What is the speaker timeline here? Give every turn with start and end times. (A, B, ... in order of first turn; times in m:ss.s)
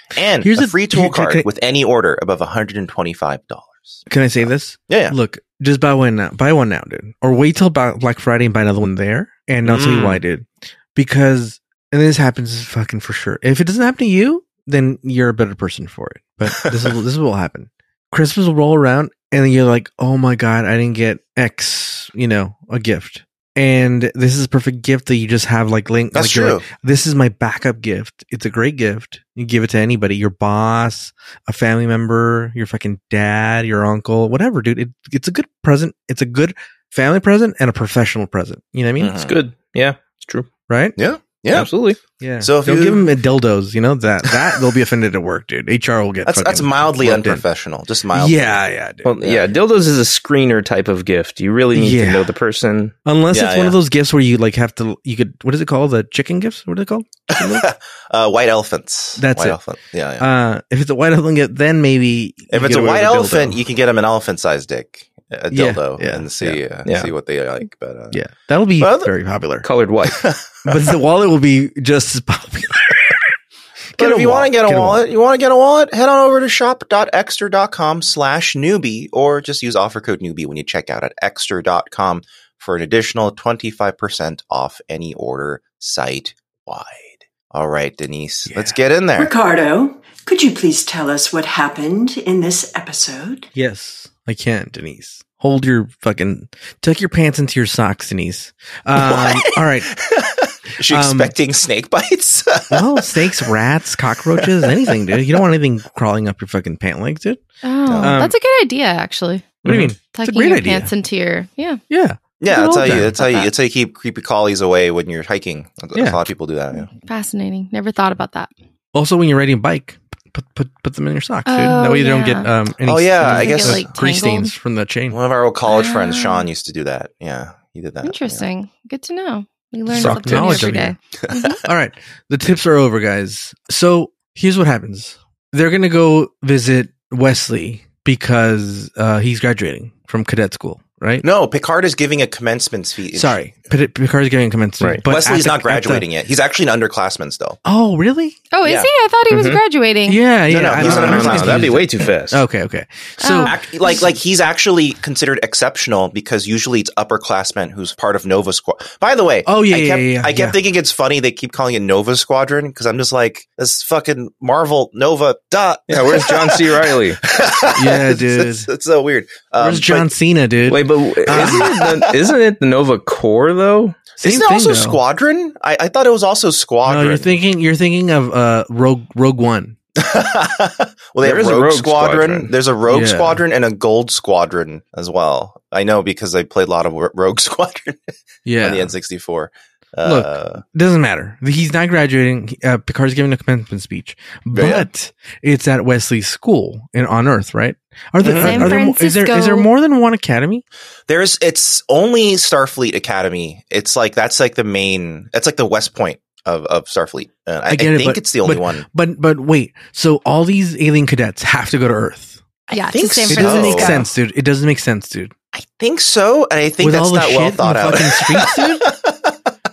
0:00.1-0:05.2 A
0:00.4-0:01.5 B
0:04.1-0:39.2 B
0:09.6-0:10.2 A
0:16.5-0:16.9 A
0:26.1-0:26.7 A
0:39.0-0:39.4 A
0:39.2-0:40.5 C
0:40.7-0:41.0 B
0:41.0-0:41.7 A
0:41.5-0:42.0 C
0:42.2-0:47.4 B
0:42.4-0:43.1 A
0:46.2-0:48.6 A
0:48.1-0:49.1 B
0:49.0-0:52.9 C
0:49.2-0:49.5 A
0:51.7-0:52.3 B
0:53.0-0:57.7 B
0:53.3-0:53.8 A
0:57.3-1:00.3 A
0:59.2-0:59.6 B
1:00.2-1:03.6 B
1:02.5-1:08.2 A
1:05.5-1:06.6 B
1:06.8-1:07.1 C
1:08.1-1:09.7 B
1:08.8-1:09.1 A
1:09.6-1:10.3 C
1:10.0-1:10.8 A
1:10.6-1:13.2 B
1:13.9-1:15.0 B
1:14.0-1:29.3 A
1:28.5-1:28.8 B
1:29.2-1:33.5 D
1:33.6-1:39.9 B
1:39.0-1:43.5 A
1:40.9-1:41.4 B
1:42.7-1:47.4 B
1:44.4-1:45.4 A
1:47.6-1:51.8 E
1:47.9-1:48.2 A
1:48.0-1:48.3 B
1:49.6-1:50.9 B
1:49.7-1:49.9 C
1:51.9-1:53.2 B
1:52.4-1:56.9 A
1:53.2-1:53.5 E
1:56.0-1:56.3 B
1:56.7-1:58.5 E
1:58.9-2:05.2 B
2:01.5-2:02.5 E
2:02.8-2:03.9 A
2:03.2-2:04.5 E
2:05.1-2:08.4 A
2:05.7-2:06.5 E
2:08.0-2:11.6 E
2:09.9-2:11.0 B
2:10.3-2:10.6 A
2:11.6-2:21.2 B
2:21.2-2:23.4 A
2:23.1-2:26.0 B
2:25.0-2:27.6 A
2:27.6-2:28.4 B
2:28.5-2:30.2 E
2:28.6-2:28.9 A
2:29.3-2:29.6 C
2:30.1-2:33.6 B
2:30.5-2:31.8 A
2:30.8-2:32.4 C
2:33.2-2:34.0 E
2:33.4-2:50.1 A
2:39.4-2:40.6 B
2:45.9-2:47.2 C
2:47.7-2:48.7 B
2:49.6-2:51.7 B
2:50.7-2:54.0 C
2:51.2-2:52.3 A
2:54.2-2:57.3 A
2:54.2-2:55.0 B
2:56.8-2:59.8 B
3:00.0-3:10.6 A
3:01.2-3:02.5 C
3:02.9-3:03.4 B
3:08.4-3:08.9 B
3:10.0-3:20.6 B
3:14.5-3:14.9 A
3:18.2-3:18.8 A
3:18.4-3:19.7 E
3:21.1-3:28.8 A
3:27.7-3:32.4 B
3:32.7-3:34.0 A
3:32.7-3:34.1 E
3:33.3-3:35.3 B
3:35.5-3:39.4 A
3:36.8-3:38.9 B